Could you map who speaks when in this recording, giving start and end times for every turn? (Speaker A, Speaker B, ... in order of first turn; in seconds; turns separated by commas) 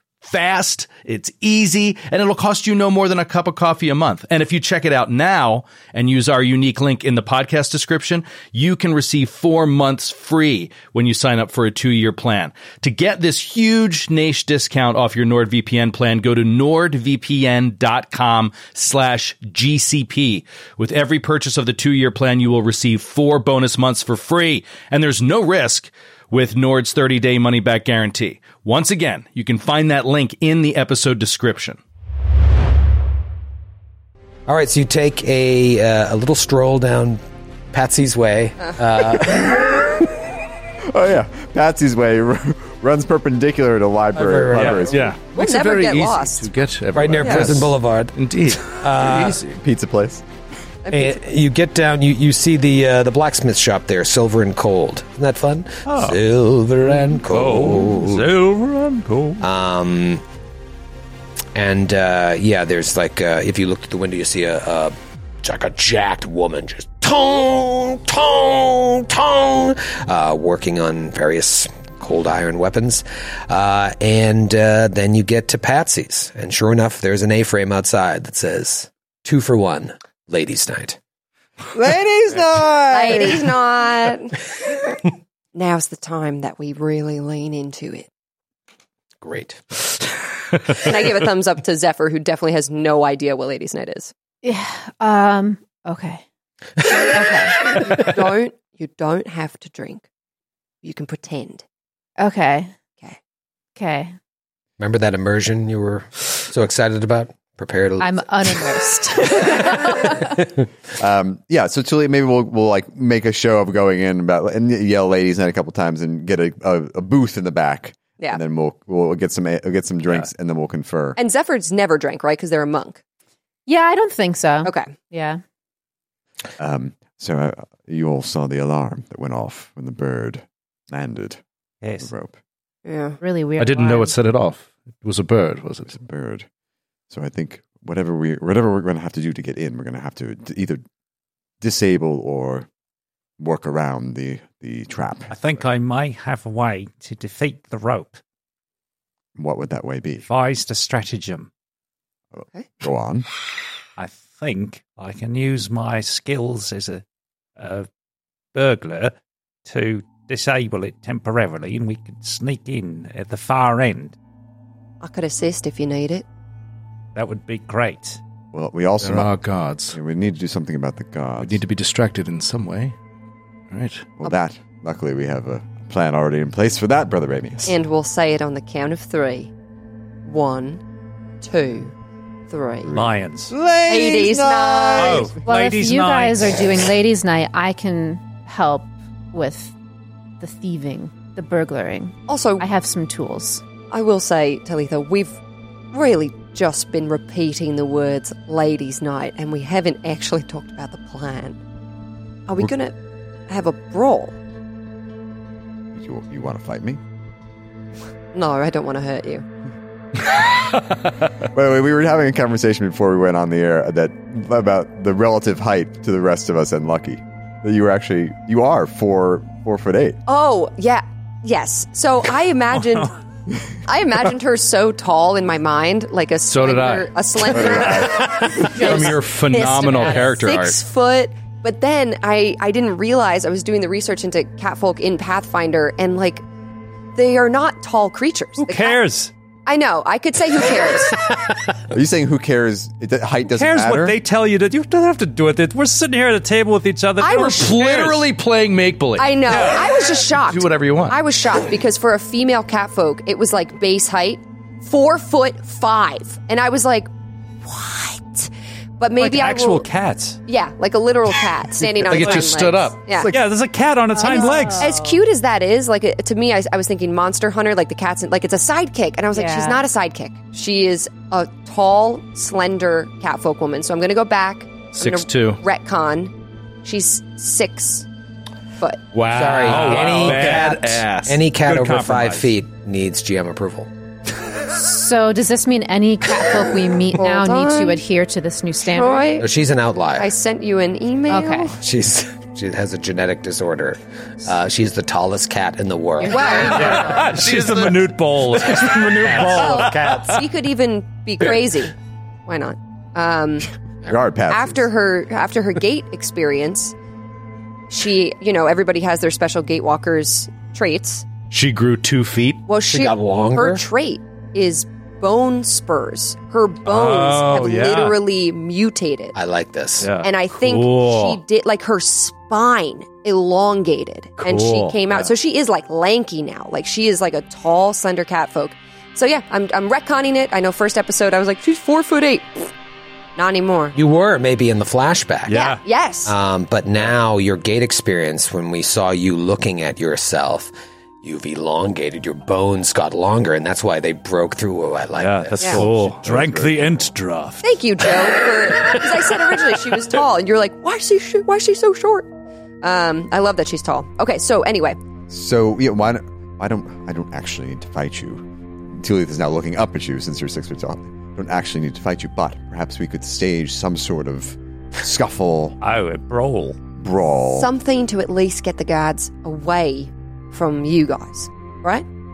Speaker A: 0.2-31.8, Speaker B: 34.5-40.0, Speaker C: 40.9-45.1, Speaker B: 44.1-45.1, Speaker A: 44.5-49.6, Speaker D: 45.3-46.5, Speaker B: 46.9-49.4, Speaker D: 47.2-47.5, Speaker C: 49.5-50.2, Speaker D: 50.8-51.2, Speaker B: 50.9-58.3, Speaker E: 55.9-56.2, Speaker E: 56.9-59.4, Speaker B: 59.4-60.2, Speaker B: 61.5-81.0, Speaker C: 81.7-83.5, Speaker D: 82.9-85.0, Speaker D: 85.5-88.1, Speaker B: 89.2-89.6, Speaker D: 90.6-94.1, Speaker F: 94.4-96.2, Speaker F: 97.1-97.5, Speaker D: 97.8-100.0, Speaker D: 100.8-101.6, Speaker F: 102.2-102.7, Speaker F: 103.8-104.1, Speaker B: 104.8-108.7, Speaker F: 108.0-110.1, Speaker B: 110.2-110.5, Speaker C: 111.0-121.2, Speaker D: 121.2-123.0, Speaker F: 123.7-125.4, Speaker D: 124.6-124.9, Speaker C: 126.6-131.4, Speaker E: 131.8-132.1, Speaker C: 132.0-132.3, Speaker D: 132.8-133.2, Speaker F: 133.2-134.1, Speaker A: 133.6-135.9, Speaker C: 135.9-136.4, Speaker C: 137.1-140.8, Speaker C: 141.6-142.7, Speaker C: 143.4-145.3, Speaker E: 145.3-148.2, Speaker C: 149.3-150.2, Speaker E: 150.2-151.5, Speaker C: 152.3-153.3, Speaker E: 154.0-157.0, Speaker E: 157.6-157.9, Speaker E: 158.5-159.1, Speaker E: 159.7-164.2, Speaker D: 165.0-166.2, Speaker E: 167.1-168.2, Speaker C: 168.5-169.3, Speaker A: 169.0-170.0, Speaker C: 169.9-171.6, Speaker A: 171.4-172.9, Speaker A: 173.7-174.1, Speaker C: 174.2-177.8, Speaker D: 177.6-179.5, Speaker D: 180.2-180.8, Speaker D: 181.4-181.9, Speaker D: 182.5-182.9, Speaker C: 182.9-185.4, Speaker E: 182.9-183.5, Speaker D: 183.9-185.4, Speaker E: 184.9-186.5, Speaker F: 185.4-189.7, Speaker F: 190.4-193.6, Speaker D: 192.3-192.7, Speaker D: 193.9-195.4, Speaker D: 195.9-201.6, Speaker D: 202.5-202.9, Speaker D: 203.5-204.3, Speaker C: 205.9-207.0, Speaker D: 208.3-209.4, Speaker C: 211.4-220.2, Speaker D: 220.3-223.1, Speaker D: 223.8-229.2, Speaker A: 226.5-230.8, Speaker C: 227.6-228.2, Speaker F: 228.6-230.3, Speaker D: 229.8-236.4, Speaker D: 237.2-239.0, Speaker E: 238.6-239.3, Speaker D: 239.7-241.3, Speaker C: 241.9-244.2, Speaker E: 243.4-248.3, Speaker D: 247.2-247.6, Speaker A: 247.3-249.8, Speaker D: 249.2-257.1, Speaker E: 249.5-249.9, Speaker A: 250.5-251.2, Speaker D: 257.6-259.9, Speaker E: 259.1-260.4, Speaker D: 260.5-263.3, Speaker A: 261.8-263.2, Speaker E: 262.0-264.9, Speaker F: 264.1-265.2, Speaker D: 264.8-276.3, Speaker F: 269.3-269.8, Speaker A: 274.9-275.6, Speaker D: 276.8-278.1, Speaker A: 279.1-281.4, Speaker B: 279.3-283.9, Speaker E: 279.6-280.8, Speaker E: 281.6-282.5, Speaker F: 284.7-289.3, Speaker D: 287.1-288.0, Speaker D: 288.8-289.5, Speaker B: 289.4-290.3, Speaker D: 290.2-291.7, Speaker F: 291.3-291.7, Speaker B: 291.7-296.9, Speaker F: 296.2-297.2, Speaker D: 296.2-297.0, Speaker E: 296.7-300.3, Speaker A: 297.2-298.1, Speaker B: 298.7-300.3, Speaker D: 299.5-301.9, Speaker D: 302.5-303.7, Speaker C: 304.1-304.9, Speaker D: 304.5-306.9, Speaker D: 307.9-311.3, Speaker A: 311.5-312.6, Speaker D: 312.7-319.3, Speaker B: 312.9-313.8, Speaker E: 316.8-318.2, Speaker B: 319.3-320.1, Speaker E: 320.0-320.3, Speaker D: 320.2-332.7, Speaker A: 320.5-321.4, Speaker A: 324.4-324.9, Speaker D: 333.4-334.0, Speaker B: 333.9-335.6, Speaker E: 335.5-335.8, Speaker D: 335.5-336.3, Speaker B: 336.2-345.8, Speaker E: 345.1-347.7, Speaker C: 345.6-347.1, Speaker D: 347.6-352.3, Speaker D: 352.8-355.0, Speaker C: 355.3-358.4, Speaker C: 358.9-365.8, Speaker E: 365.8-366.8, Speaker C: 367.0-367.7, Speaker D: 367.5-372.0